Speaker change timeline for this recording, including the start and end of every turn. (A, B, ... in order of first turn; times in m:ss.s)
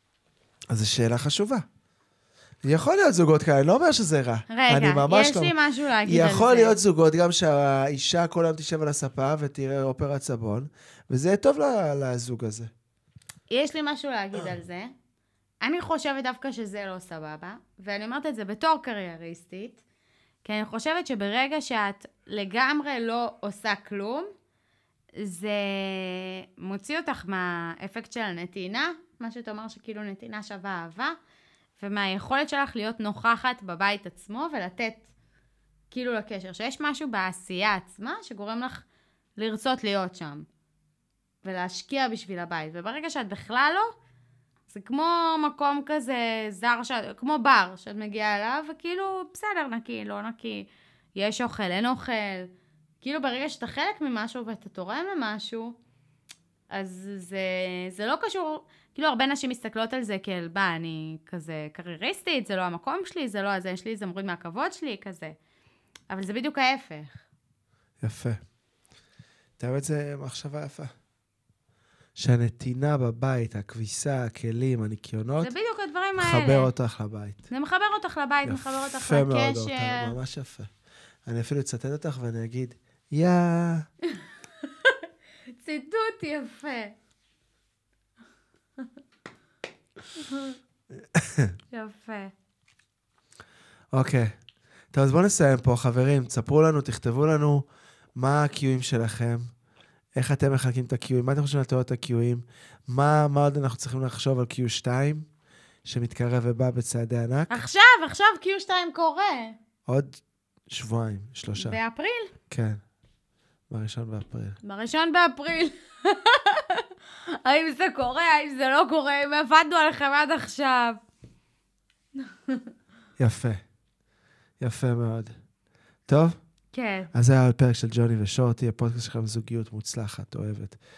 0:00.7-0:01.6 A
0:02.6-0:05.5 A
0:04.5-0:06.8 B
0:06.0-0:12.7 A
0:13.5-0:14.9 B
0:15.6-0:19.8 B
0:20.4-0:24.3 B
0:25.2-0:31.2 B
0:31.8-0:35.1 B
0:35.9-0:38.8 B
0:39.4-0:40.5 B
0:41.4-0:44.0 B
0:44.7-0:52.5 B
0:53.0-0:55.8 B
0:56.7-1:05.4 B
1:06.1-1:07.2 B
1:08.0-1:08.4 A
1:09.6-1:10.9 A
1:12.2-1:15.5 A
1:15.4-1:16.7 B
1:16.2-1:17.5 A
1:17.5-1:20.1 B
1:18.4-1:20.7 A
1:21.3-1:23.9 A
1:24.2-1:27.0 B
1:30.2-1:30.6 B
1:31.0-1:31.6 A
1:31.7-1:32.3 B
1:33.9-1:34.3 A
1:34.9-1:37.6 A
1:38.2-1:39.4 A
1:40.2-1:45.3 A
1:45.8-1:47.5 A
1:47.5-1:49.6 B
1:49.9-1:51.8 A
1:51.6-1:52.3 B
1:52.5-1:52.8 A
1:53.7-1:54.6 A
1:54.6-2:01.0 B
2:02.2-2:02.7 B
2:03.2-2:03.6 A
2:04.6-2:05.3 A
2:06.1-2:06.4 A
2:06.7-2:07.1 B
2:07.1-2:10.8 A